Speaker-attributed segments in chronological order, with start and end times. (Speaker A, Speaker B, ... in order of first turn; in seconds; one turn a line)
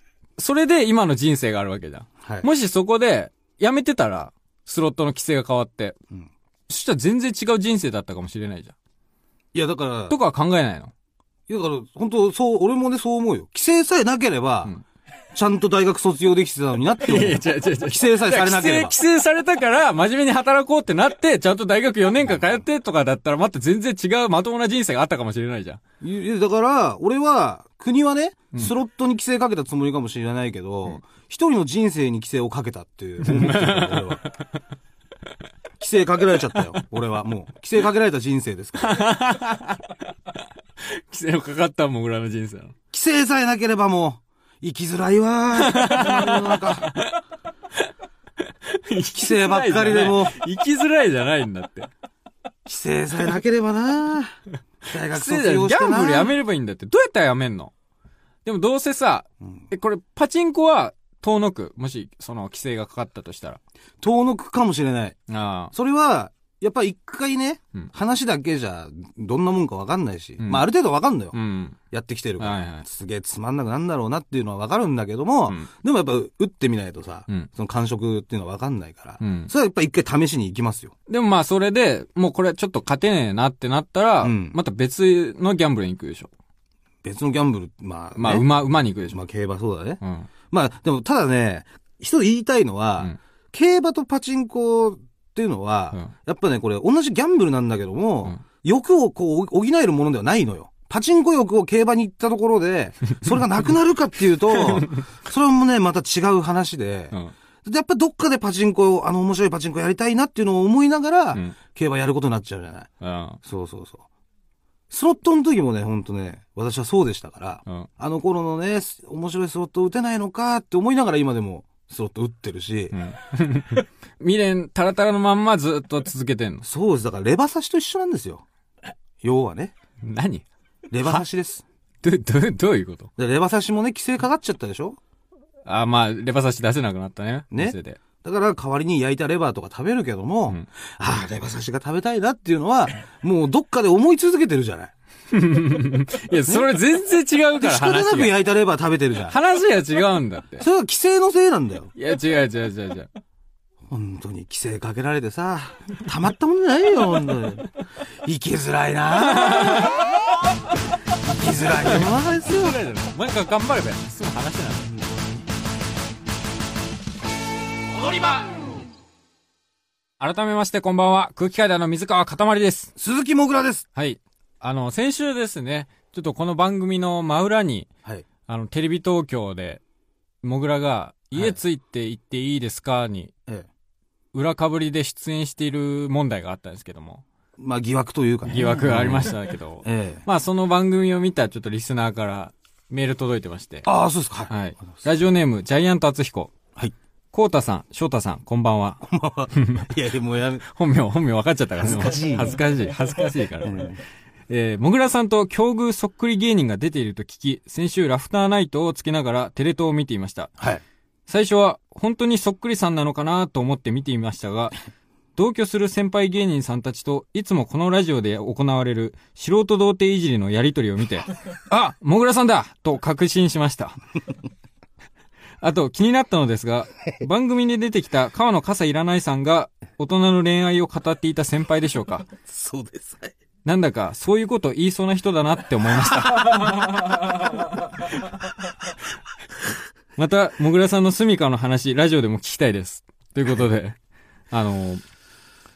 Speaker A: 0.4-6.0
Speaker B: 2.2-2.5
Speaker A: 6.7-8.8
Speaker B: 9.5-10.2
Speaker A: 10.1-10.9
Speaker B: 11.5-14.7
Speaker B: 15.3-19.0
Speaker A: 17.0-25.8
Speaker B: 22.3-22.6
Speaker B: 26.0-34.2
Speaker A: 33.2-34.3
Speaker B: 35.8-39.0
Speaker A: 38.8-40.0
Speaker A: 40.8-42.8
Speaker B: 42.9-46.9
Speaker A: 45.6-47.2
Speaker A: 48.5-51.9
Speaker B: 49.1-50.4
Speaker B: 52.6-56.4
Speaker A: 55.0-57.7
Speaker A: 58.5-63.6
Speaker B: 64.0-65.2
Speaker A: 65.3-65.7
Speaker B: 65.7-71.4
Speaker A: 70.4-70.7
Speaker A: 71.3-71.8
Speaker B: 71.9-80.9
Speaker A: 72.4-72.9
Speaker A: 79.2-79.5
Speaker A: 81.1-86.3
Speaker B: 84.2-84.6
Speaker B: 87.0-88.5
Speaker A: 88.2-89.2
Speaker B: 89.1-90.0
Speaker A: 90.0-90.3
Speaker B: 90.5-112.9
Speaker A: 104.7-105.0
Speaker A: 113.0-113.4
Speaker B: 113.4-114.0
Speaker B: 114.9-123.0
Speaker A: 122.9-126.7
Speaker B: 126.6-128.4
Speaker B: 129.2-129.7
Speaker A: 130.0-130.5
Speaker B: 130.9-131.6
Speaker A: 132.0-133.1
Speaker B: 133.2-135.0
Speaker A: 135.7-138.0
Speaker B: 137.5-144.9
Speaker A: 145.3-148.3
Speaker B: 147.6-149.4
Speaker A: 149.3-150.7
Speaker B: 150.6-151.9
Speaker A: 151.9-153.1
Speaker B: 153.9-160.1
Speaker A: 159.2-160.1
Speaker B: 161.2-162.8
Speaker A: 161.8-164.9
Speaker A: 170.2-172.9
Speaker B: 173.0-173.8
Speaker A: 173.9-177.9
Speaker A: 178.5-179.8
Speaker A: 180.4-183.3
Speaker A: 184.3-187.2
Speaker B: 187.6-190.2
Speaker A: 188.5-193.9
Speaker B: 193.8-195.0
Speaker A: 194.5-196.6
Speaker A: 197.3-199.0
Speaker B: 199.0-200.7
Speaker A: 199.5-199.9
Speaker A: 200.7-203.9
Speaker B: 201.8-202.6
Speaker B: 203.6-204.0
Speaker A: 204.5-210.6
Speaker A: 211.3-214.8
Speaker A: 215.4-224.0
Speaker A: 225.6-232.3
Speaker B: 232.5-233.3
Speaker A: 233.7-236.8
Speaker A: 240.2-244.0
Speaker A: 244.5-245.0